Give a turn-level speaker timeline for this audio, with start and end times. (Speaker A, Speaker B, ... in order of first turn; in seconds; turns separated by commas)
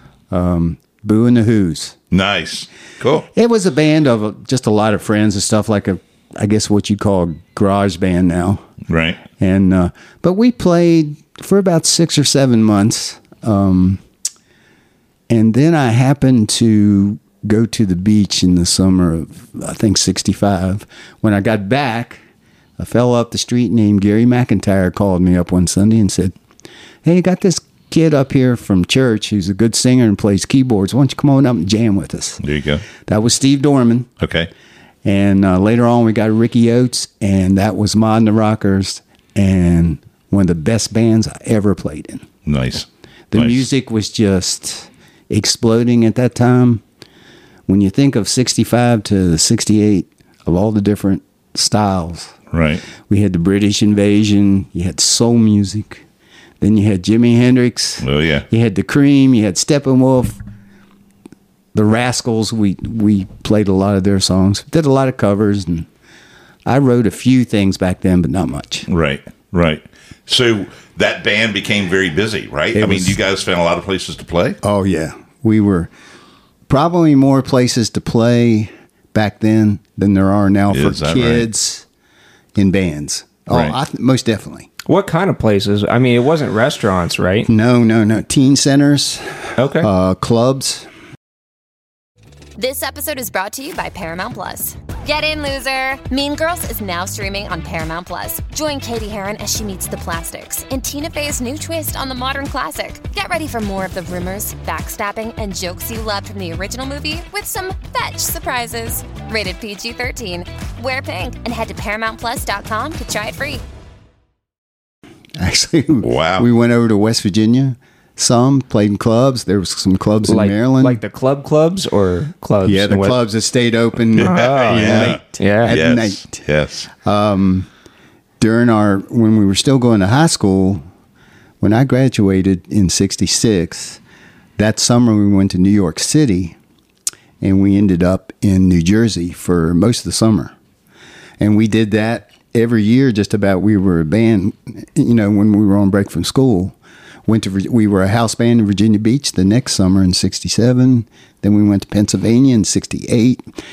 Speaker A: 0.3-1.9, Speaker B: 2.1-3.3, Speaker A: 3.3-8.6, Speaker B: 8.9-9.2, Speaker A: 9.4-14.0, Speaker A: 15.3-22.2, Speaker A: 22.8-26.3, Speaker A: 27.0-32.4, Speaker B: 32.4-32.9, Speaker A: 33.0-34.1, Speaker B: 34.2-34.5, Speaker A: 35.0-42.2, Speaker B: 42.5-43.6, Speaker A: 43.3-46.8, Speaker A: 47.7-52.3, Speaker B: 52.5-52.9, Speaker A: 53.0-56.0, Speaker A: 56.6-60.4, Speaker B: 58.0-58.5, Speaker A: 61.7-65.9, Speaker A: 66.7-68.8, Speaker B: 68.9-74.6, Speaker A: 72.7-73.2, Speaker A: 74.6-75.9, Speaker A: 76.7-81.8, Speaker B: 80.7-81.5, Speaker A: 82.5-84.7, Speaker B: 83.5-83.8, Speaker C: 84.8-87.5, Speaker A: 87.5-90.9, Speaker C: 89.6-89.9, Speaker D: 92.6-113.6, Speaker A: 115.4-121.0, Speaker B: 116.0-116.5, Speaker C: 120.2-123.2, Speaker A: 122.6-126.4, Speaker C: 124.2-125.7, Speaker B: 124.2-126.9, Speaker A: 126.9-127.7, Speaker A: 128.4-130.8, Speaker A: 131.6-134.0, Speaker A: 134.6-136.6, Speaker A: 137.4-140.5, Speaker A: 141.4-153.4